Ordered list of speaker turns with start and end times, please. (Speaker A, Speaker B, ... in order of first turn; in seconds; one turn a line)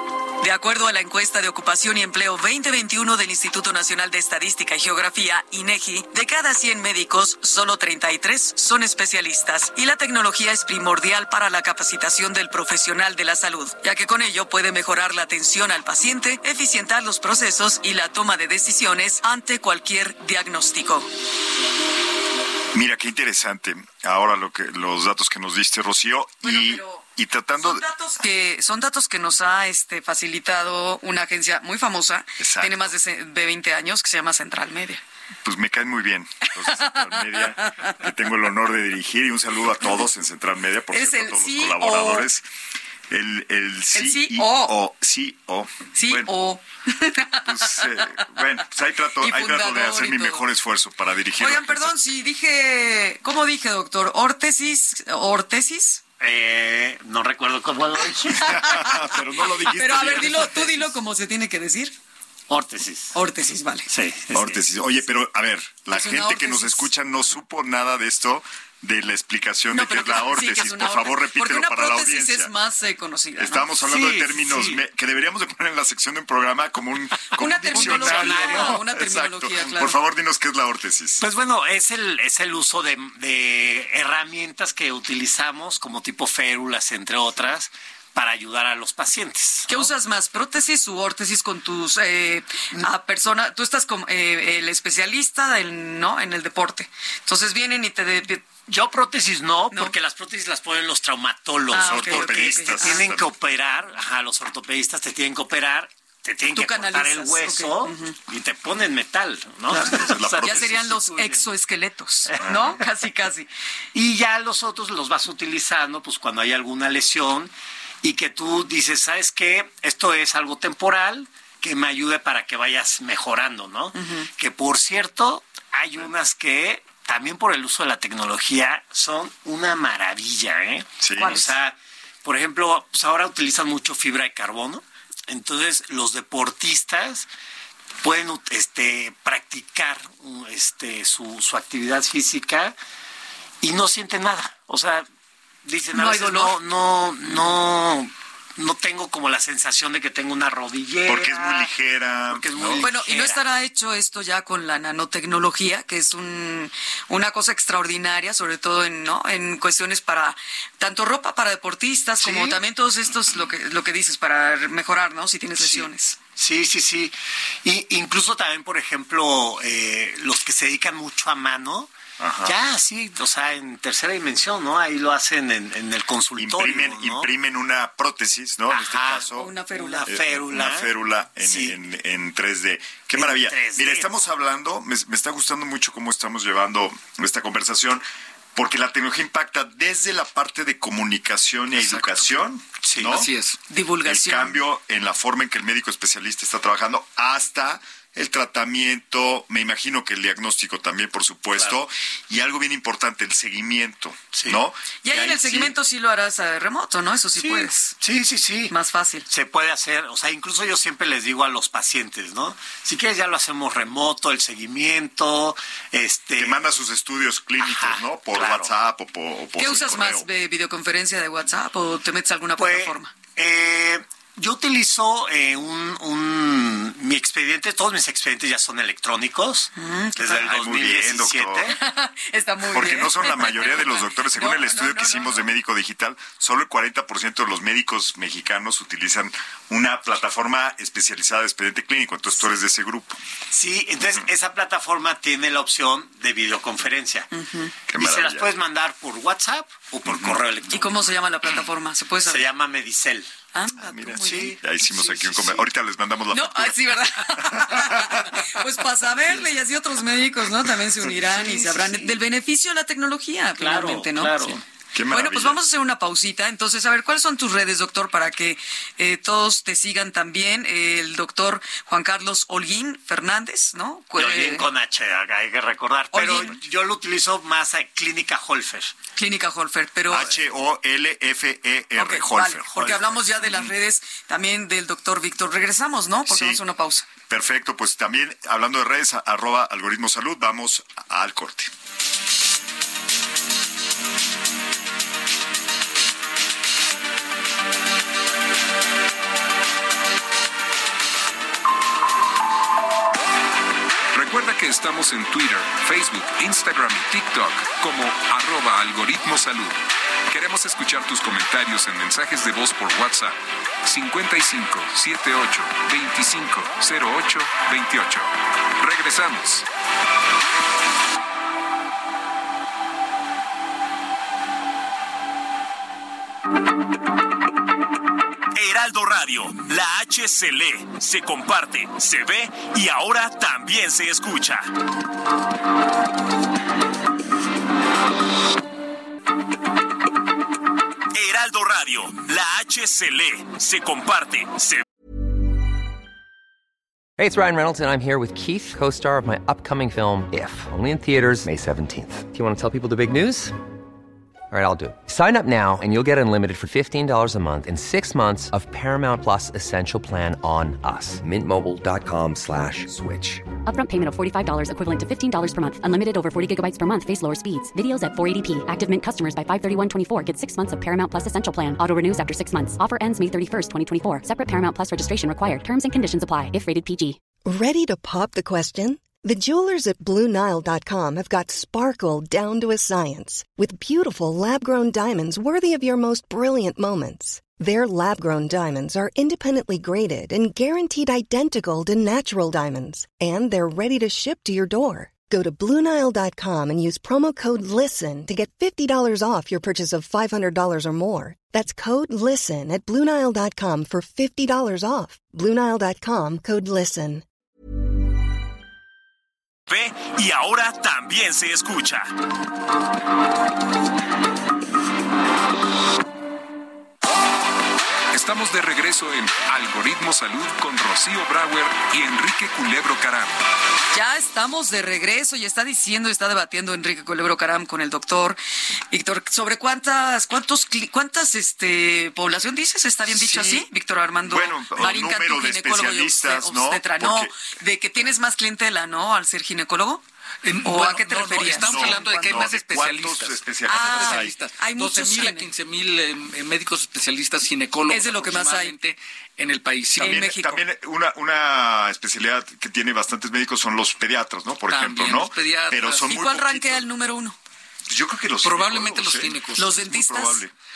Speaker A: 0.4-21.1
Speaker B: 22.7-27.8
Speaker A: 26.4-27.0
Speaker A: 27.6-35.0
Speaker B: 32.4-32.9
Speaker B: 35.4-42.4
Speaker A: 36.7-38.0
Speaker A: 40.9-42.3
Speaker B: 43.1-46.3
Speaker A: 43.9-44.8
Speaker A: 45.9-48.3
Speaker B: 47.4-51.9
Speaker A: 49.2-50.4
Speaker A: 51.4-56.0
Speaker C: 56.2-58.5
Speaker B: 58.3-60.8
Speaker A: 58.3-61.9
Speaker C: 62.5-63.1
Speaker A: 63.1-63.9
Speaker C: 63.9-64.6
Speaker B: 64.3-72.5
Speaker A: 65.9-66.9
Speaker A: 69.7-73.7
Speaker B: 73.4-81.2
Speaker C: 73.8-74.8
Speaker A: 77.3-80.0
Speaker C: 77.7-78.8
Speaker C: 81.2-89.9
Speaker A: 89.7-98.5
Speaker C: 98.7-111.5
Speaker A: 101.7-103.0
Speaker B: 101.7-103.3
Speaker A: 106.5-108.2
Speaker A: 109.7-113.5
Speaker B: 109.7-111.0
Speaker C: 113.9-117.5
Speaker C: 118.0-137.3
Speaker A: 123.9-124.3
Speaker B: 131.0-131.5
Speaker A: 131.2-131.5
Speaker C: 138.0-142.7
Speaker C: 143.6-145.1
Speaker C: 145.6-151.7
Speaker A: 145.9-146.5
Speaker B: 151.1-152.9
Speaker C: 152.3-153.4
Speaker A: 152.8-166.2
Speaker C: 162.2-162.6
Speaker C: 165.6-171.9
Speaker B: 172.2-172.6
Speaker C: 172.4-177.3
Speaker B: 176.3-179.5
Speaker C: 178.7-180.9
Speaker A: 179.3-180.1
Speaker B: 180.1-188.0
Speaker C: 181.4-181.7
Speaker C: 183.2-184.1
Speaker B: 188.5-193.3
Speaker D: 191.8-192.2
Speaker C: 192.8-193.2
Speaker D: 193.1-193.6
Speaker A: 193.7-194.6
Speaker B: 194.0-205.7
Speaker C: 204.3-204.6
Speaker A: 205.0-208.0
Speaker C: 207.4-208.7
Speaker A: 208.7-209.2
Speaker C: 209.3-216.6
Speaker B: 216.4-220.3
Speaker C: 217.6-218.7
Speaker A: 219.6-223.1
Speaker C: 222.6-231.8
Speaker A: 229.8-230.5
Speaker B: 230.2-231.7
Speaker A: 231.7-235.4
Speaker B: 232.7-243.2
Speaker C: 243.5-247.3
Speaker A: 247.3-247.7
Speaker B: 247.9-248.5
Speaker C: 248.0-251.0
Speaker B: 250.1-250.4
Speaker A: 250.7-252.4
Speaker C: 252.2-253.3
Speaker A: 253.5-254.6
Speaker B: 253.8-258.5
Speaker C: 254.2-255.7
Speaker A: 256.3-264.5
Speaker C: 261.1-262.2
Speaker C: 263.6-264.6
Speaker B: 264.9-265.6
Speaker A: 265.1-274.7
Speaker C: 274.1-278.9
Speaker A: 276.1-276.6
Speaker A: 279.1-280.3
Speaker B: 280.1-283.7
Speaker A: 281.9-287.1
Speaker C: 282.8-283.0
Speaker B: 286.3-286.6
Speaker B: 287.3-291.7
Speaker E: 304.1-319.7
Speaker F: 328.5-334.7
Speaker F: 341.1-344.8
Speaker G: 347.2-353.6
Speaker G: 354.5-363.4
Speaker H: 363.6-377.2
Speaker I: 377.4-407.2
Speaker F: 409.7-412.1
Speaker E: 418.1-423.5
Speaker A: 423.9-428.4
Speaker A: 428.9-440.0
Speaker B: 433.1-433.7
Speaker B: 434.2-437.3
Speaker D: 440.4-450.2
Speaker A: 440.6-442.5
Speaker B: 441.6-444.3
Speaker A: 443.7-445.5
Speaker A: 447.9-448.7
Speaker A: 450.0-450.6
Speaker B: 450.0-456.9
Speaker D: 454.7-456.1
Speaker A: 456.1-457.4
Speaker B: 457.9-460.5
Speaker D: 458.4-459.7
Speaker A: 459.6-460.4